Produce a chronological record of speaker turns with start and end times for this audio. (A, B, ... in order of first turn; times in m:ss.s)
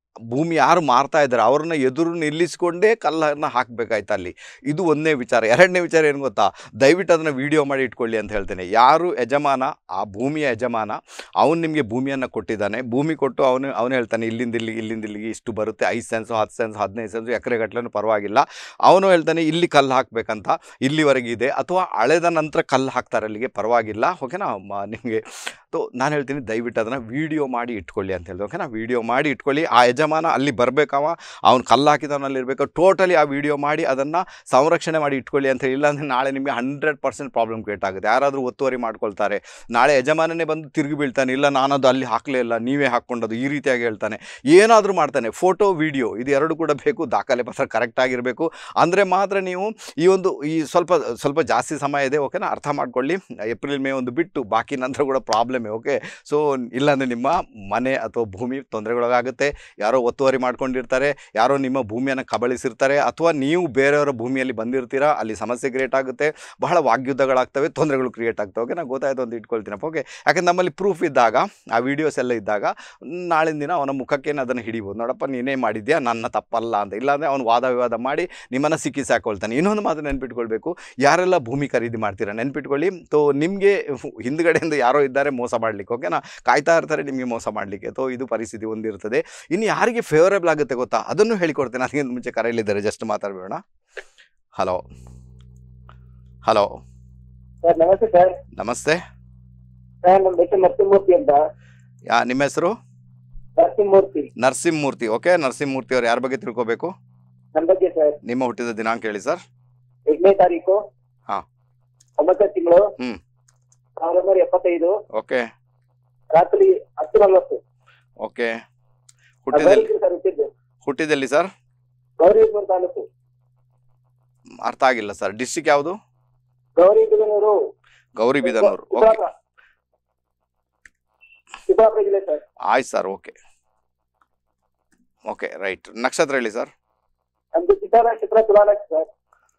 0:00.3-1:33.6 A
1:34.6-1:34.8 A
1:36.4-1:36.8 A
1:37.6-1:38.4 B
1:38.6-1:39.0 A
1:40.0-1:41.4 B
1:42.1-1:42.7 A
1:43.6-1:44.3 B
1:44.4-1:46.9 A
1:47.5-1:48.2 B
1:48.2-1:49.4 A
1:50.1-1:50.8 B
1:52.2-1:52.9 B
1:54.0-1:54.9 B
1:55.1-1:55.5 A
1:56.3-1:57.6 B
1:58.2-1:58.6 A
1:59.5-1:59.9 A
1:59.5-2:00.5 B
2:00.8-2:01.5 A
2:02.2-2:03.0 B
2:04.6-2:06.0 A
2:06.8-2:07.6 B
2:08.2-2:09.2 A
2:08.4-2:09.3 B
2:11.7-2:12.4 B
2:12.7-2:13.3 A
2:15.3-2:16.7 A
2:17.5-2:19.1 B